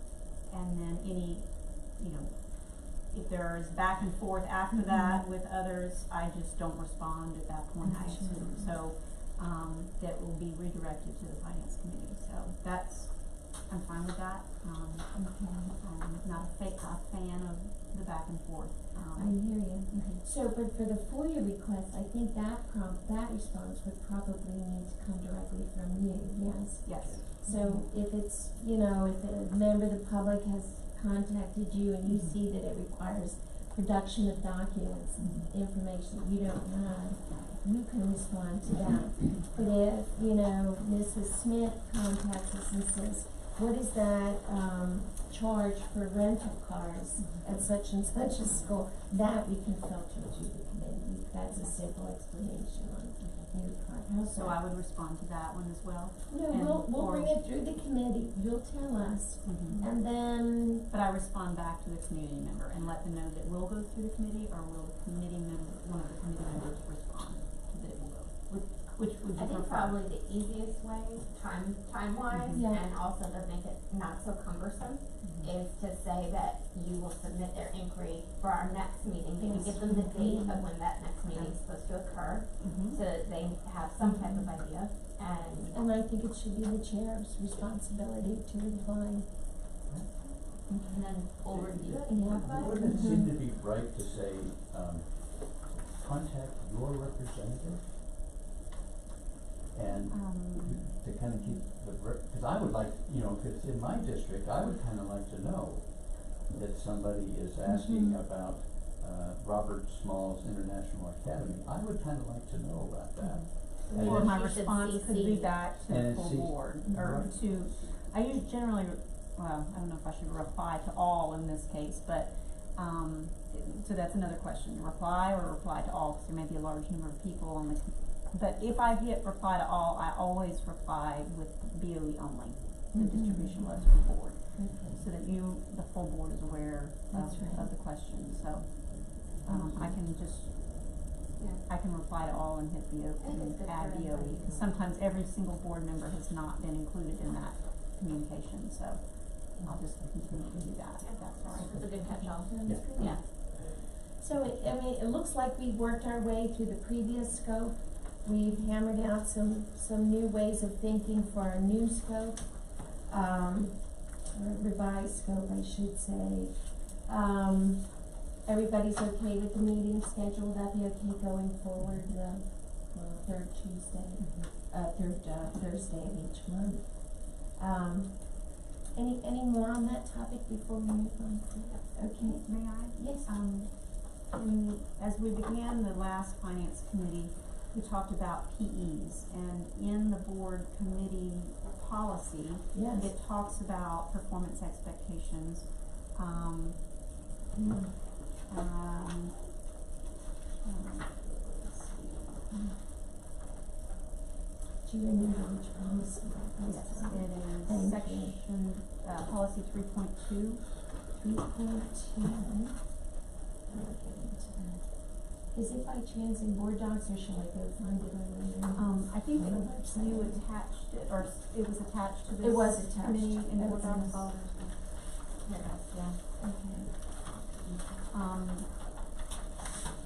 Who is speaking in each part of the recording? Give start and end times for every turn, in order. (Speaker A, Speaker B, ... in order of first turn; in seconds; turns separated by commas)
Speaker A: 0.5-20.2, Speaker B: 4.7-5.3, Speaker B: 7.8-8.7, Speaker B: 19.1-54.6, Speaker A: 26.8-27.9, Speaker C: 27.0-27.6, Speaker A: 32.1-32.4, Speaker A: 35.2-35.5, Speaker A: 54.3-57.3, Speaker B: 56.3-60.9, Speaker A: 59.4-59.8, Speaker A: 60.9-70.0, Speaker D: 69.3-85.8, Speaker A: 72.3-72.7, Speaker B: 72.6-72.8, Speaker A: 75.2-75.5, Speaker B: 79.4-80.7, Speaker A: 82.6-83.0, Speaker B: 85.7-89.4, Speaker C: 89.9-90.1, Speaker D: 90.7-93.0, Speaker C: 91.5-97.9, Speaker B: 92.0-93.3, Speaker C: 99.7-114.3, Speaker A: 100.1-100.9, Speaker A: 113.2-152.0, Speaker D: 113.9-115.6, Speaker C: 115.8-117.7, Speaker B: 132.9-133.9, Speaker B: 134.5-135.0, Speaker B: 137.1-137.7, Speaker B: 139.5-139.9, Speaker D: 141.4-141.6, Speaker D: 143.2-144.7, Speaker D: 151.0-153.2, Speaker B: 151.9-153.2, Speaker C: 152.6-153.9, Speaker B: 154.1-183.3, Speaker A: 174.2-174.4, Speaker A: 182.2-196.9, Speaker B: 192.7-193.1, Speaker B: 197.5-197.9, Speaker A: 198.5-199.4, Speaker A: 200.6-202.5, Speaker B: 204.8-208.4, Speaker A: 206.6-210.7, Speaker B: 211.2-212.9, Speaker B: 213.7-214.8, Speaker B: 215.4-220.5, Speaker A: 218.8-224.6, Speaker B: 222.4-224.3, Speaker D: 225.4-225.9, Speaker A: 225.9-226.2, Speaker B: 226.4-227.0, Speaker D: 227.5-227.9, Speaker A: 228.1-228.7